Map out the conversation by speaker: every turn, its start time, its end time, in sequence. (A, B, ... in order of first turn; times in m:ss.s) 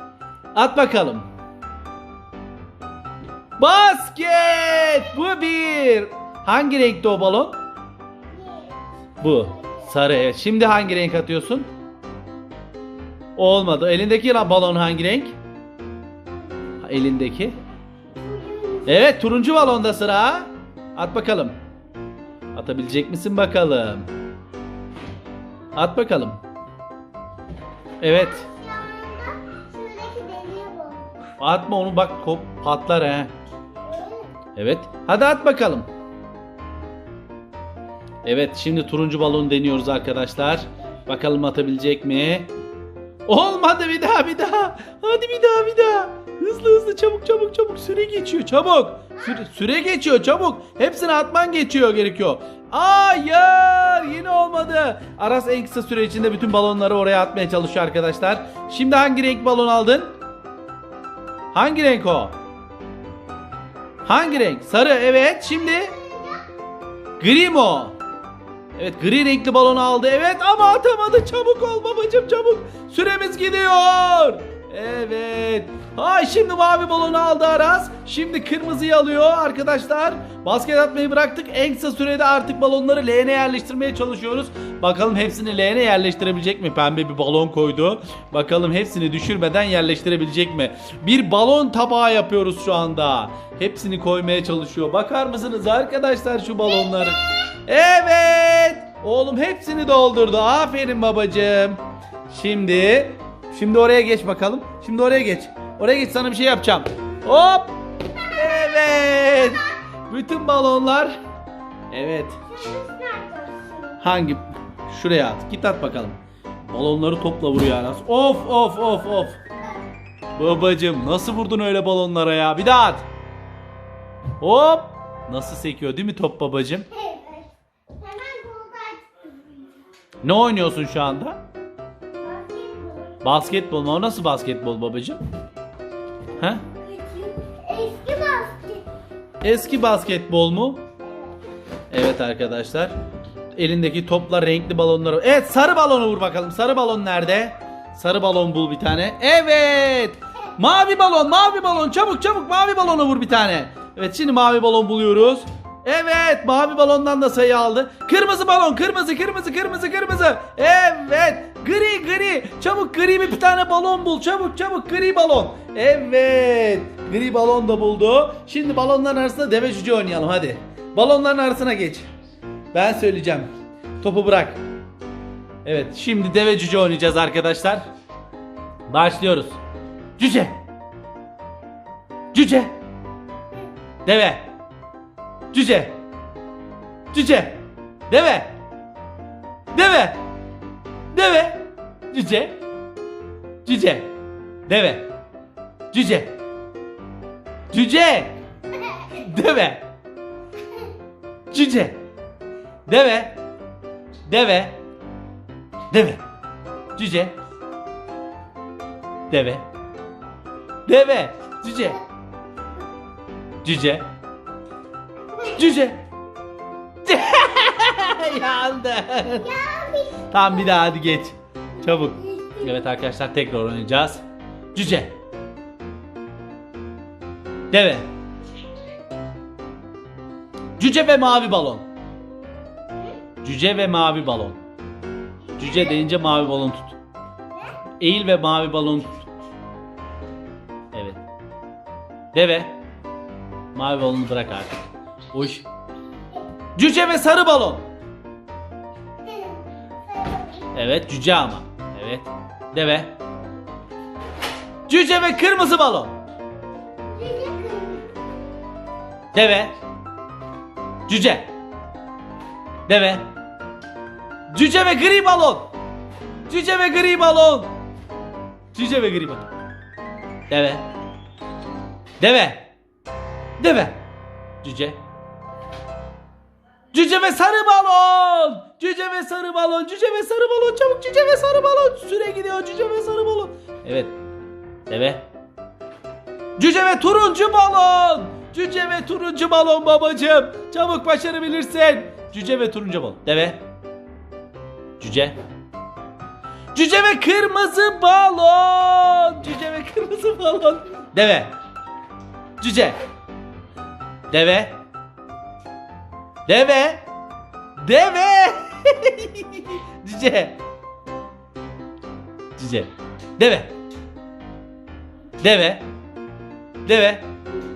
0:00.5-0:01.3 A
0:03.6-0:07.6 A
0:08.3-0:08.8 B
0:09.2-0:11.7 A
0:09.6-0:09.8 B
0:13.4-0:15.4 A
0:16.8-0:17.6 A
0:18.1-0:18.9 B
0:18.8-0:21.6 A
0:22.5-0:24.1 A
0:25.7-0:26.4 A
0:28.0-0:28.5 A
0:28.4-0:31.1 B
0:31.4-0:33.3 A
0:33.8-0:34.3 B
0:34.6-0:35.9 A
0:38.2-0:42.5 A
0:43.3-1:00.1 A
1:01.5-1:02.4 A
1:04.0-1:06.0 A
1:05.9-1:06.4 B
1:07.2-1:08.0 A
1:08.8-1:51.2 A
1:51.9-1:52.4 A
1:52.5-1:54.0 B
1:54.0-1:59.4 A
2:00.4-2:03.0 A
2:04.4-2:06.9 A
2:06.9-2:09.8 B
2:10.2-2:11.4 A
2:12.1-2:13.2 B
2:13.2-2:15.2 A
2:16.4-2:16.6 A
2:16.6-2:18.8 B
2:19.4-2:20.8 A
2:21.0-2:21.3 B
2:21.9-2:23.0 A
2:23.5-2:52.1 A
2:52.7-2:53.5 A
2:54.0-2:54.6 A
2:55.6-2:57.9 A
2:58.9-2:59.6 A
3:00.2-3:00.6 A
3:02.3-3:02.8 A
3:04.0-3:04.5 A
3:05.5-3:06.0 A
3:07.1-3:08.6 A
3:09.7-3:10.2 A
3:11.1-3:12.6 A
3:13.6-3:14.1 A
3:14.7-3:15.1 A
3:15.9-3:16.4 A
3:17.7-3:18.4 A
3:19.0-3:19.9 A
3:21.5-3:22.0 A
3:22.9-3:23.4 A
3:24.2-3:24.8 A
3:25.9-3:26.2 A
3:27.0-3:27.4 A
3:29.3-3:29.7 A
3:30.8-3:32.0 A
3:33.6-3:34.1 A
3:35.4-3:36.0 A
3:37.0-3:39.5 A
3:39.4-3:40.3 B
3:40.3-3:44.2 A
3:41.9-3:42.6 B
3:44.7-3:45.2 A
3:47.7-3:48.1 A
3:50.8-3:51.8 A
3:53.4-3:54.6 A
3:55.5-3:56.0 B
3:55.6-3:57.0 A
3:58.0-3:59.2 A
4:00.9-4:01.2 A
4:02.3-4:02.8 A
4:03.7-4:05.6 A
4:06.8-4:07.9 A
4:09.2-4:10.7 B
4:10.7-4:13.2 A
4:14.9-4:16.2 A
4:17.0-4:18.1 B
4:19.3-4:19.7 A
4:21.1-4:21.5 A
4:22.9-4:23.3 A
4:24.5-4:25.7 A
4:26.5-4:27.7 A
4:28.7-4:29.4 A
4:30.5-4:30.9 A
4:32.2-4:32.7 A
4:33.6-4:34.1 A
4:34.6-4:35.0 A
4:36.9-4:44.2 A
4:44.9-4:45.2 A
4:46.6-4:53.6 A
4:55.0-4:55.4 A
4:56.7-5:01.5 A
5:02.6-5:03.0 A
5:04.3-5:04.8 A
5:06.5-5:07.0 A
5:07.8-5:10.6 A
5:12.6-5:13.7 A
5:15.4-5:15.9 A
5:16.8-5:17.3 A